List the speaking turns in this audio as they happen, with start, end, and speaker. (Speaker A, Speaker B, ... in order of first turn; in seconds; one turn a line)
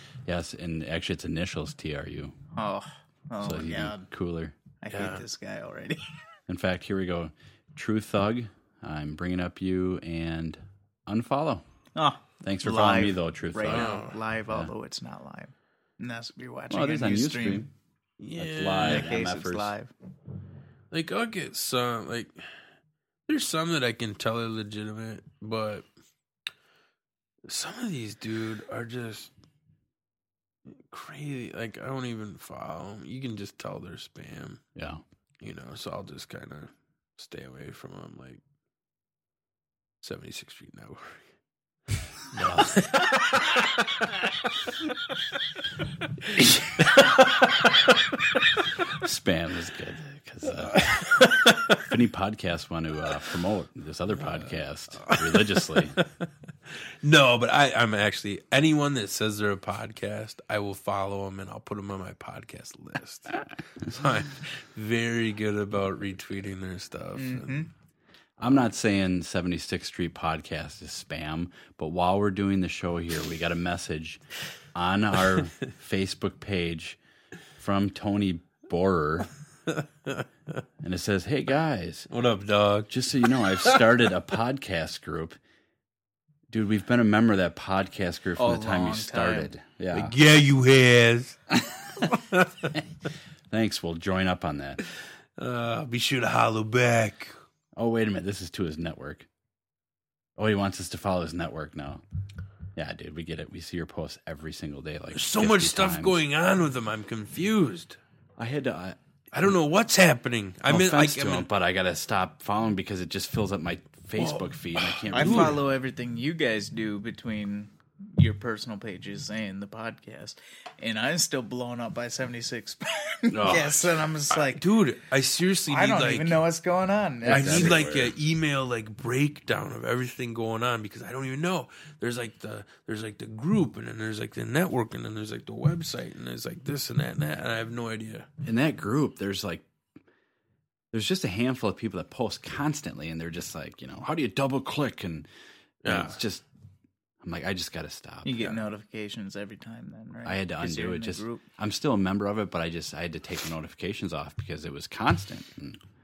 Speaker A: 0.3-2.4
Speaker B: 2.5-4.1
Speaker A: 3.4-4.6
Speaker B: 4.8-6.0
Speaker C: 4.9-5.2
Speaker A: 6.5-11.6
Speaker B: 12.0-17.6
Speaker A: 12.4-13.9
Speaker C: 13.7-14.2
Speaker A: 16.7-17.7
Speaker C: 18.2-19.1
Speaker A: 18.4-19.7
Speaker B: 18.8-19.9
Speaker C: 20.9-22.5
Speaker C: 23.3-25.9
Speaker C: 27.4-29.3
Speaker C: 30.7-34.6
Speaker A: 34.8-35.0
Speaker C: 35.4-38.4
Speaker C: 40.0-41.3
Speaker C: 42.3-44.3
Speaker A: 42.4-42.7
Speaker C: 46.8-48.4
Speaker A: 49.0-50.9
Speaker C: 50.6-51.9
Speaker A: 51.8-56.0
Speaker C: 54.2-67.7
Speaker B: 67.2-67.7
Speaker A: 68.4-74.2
Speaker A: 74.7-77.0
Speaker A: 77.6-79.3
Speaker C: 79.8-80.2
Speaker A: 80.8-82.1
Speaker C: 82.1-83.9
Speaker A: 82.9-85.4
Speaker A: 86.5-90.2
Speaker B: 88.4-89.5
Speaker C: 89.9-91.4
Speaker C: 92.0-92.7
Speaker A: 93.5-94.8
Speaker C: 95.4-97.3
Speaker A: 97.8-99.3
Speaker A: 100.4-102.0
Speaker A: 102.8-106.2
Speaker C: 105.1-108.0
Speaker A: 108.4-109.5
Speaker C: 109.3-111.5
Speaker A: 110.7-115.6
Speaker C: 114.2-115.6
Speaker B: 115.1-124.7
Speaker A: 123.3-123.9
Speaker C: 124.4-126.5
Speaker B: 125.7-127.8
Speaker A: 127.2-128.2
Speaker C: 127.3-138.3
Speaker A: 138.4-139.7
Speaker A: 140.9-145.3
Speaker C: 145.8-146.2
Speaker A: 145.8-146.4
Speaker A: 147.2-148.6
Speaker B: 148.2-151.4
Speaker A: 150.2-155.8